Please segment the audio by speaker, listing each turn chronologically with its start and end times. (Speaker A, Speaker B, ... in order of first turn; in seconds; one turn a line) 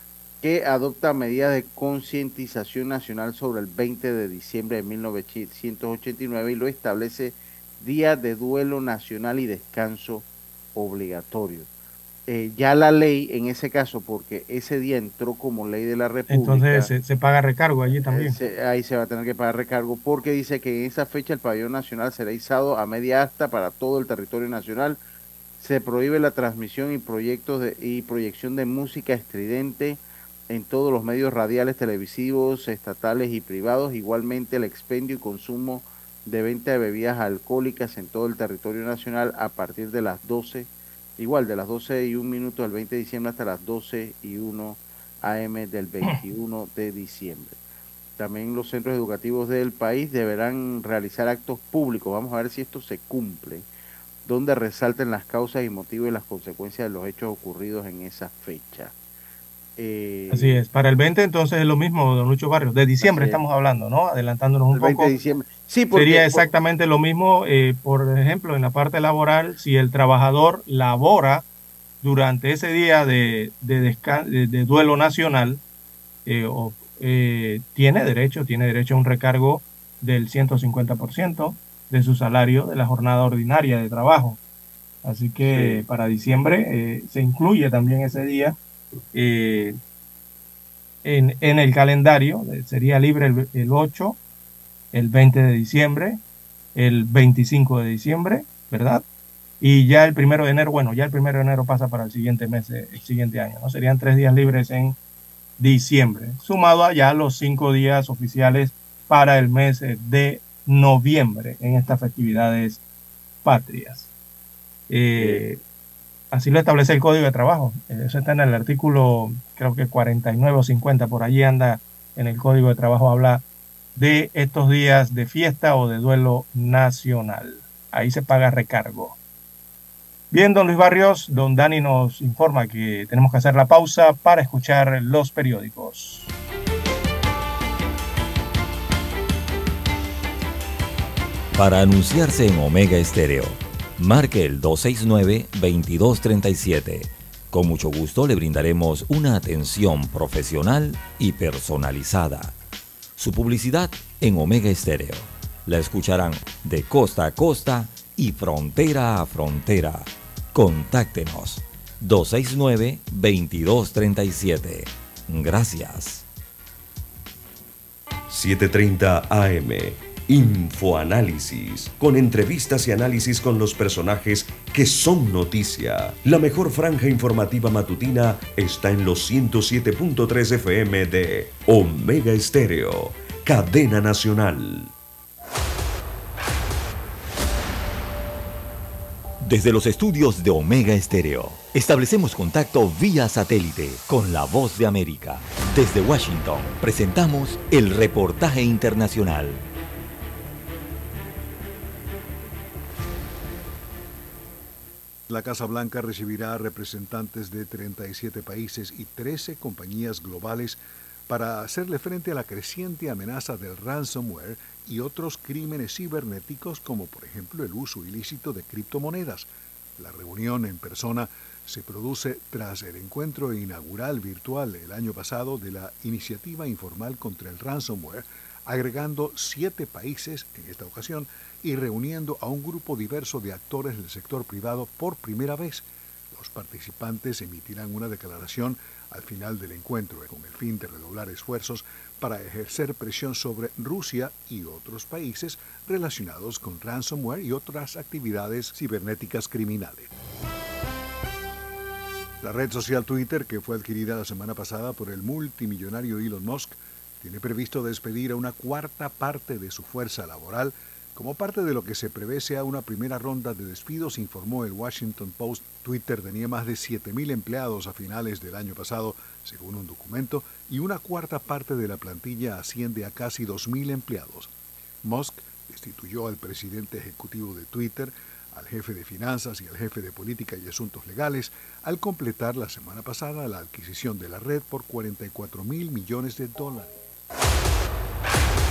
Speaker A: 0.4-11.7
Speaker A: 12.3-16.9
Speaker B: 16.3-18.4
Speaker A: 18.1-25.0
Speaker A: 25.6-47.6
Speaker A: 48.2-53.7
Speaker A: 54.2-58.9
Speaker A: 59.8-60.6
Speaker B: 60.3-65.1
Speaker A: 63.0-63.4
Speaker A: 64.7-66.5
Speaker B: 65.9-71.4
Speaker B: 72.0-75.6
Speaker B: 76.2-84.4
Speaker B: 85.0-88.5
Speaker A: 85.4-85.8
Speaker B: 89.1-89.8
Speaker B: 91.0-94.2
Speaker B: 94.9-96.2
Speaker B: 96.7-99.0
Speaker B: 99.6-105.0
Speaker B: 105.6-112.8
Speaker B: 113.4-114.1
Speaker B: 114.9-115.6
Speaker A: 115.1-115.4
Speaker B: 116.3-123.4
Speaker B: 124.0-129.2
Speaker B: 130.3-136.3
Speaker C: 141.5-152.5
Speaker C: 153.2-166.2
Speaker D: 168.3-184.9
Speaker C: 189.4-199.6
Speaker E: 205.3-250.1
Speaker E: 252.4-274.5
Speaker E: 275.0-286.9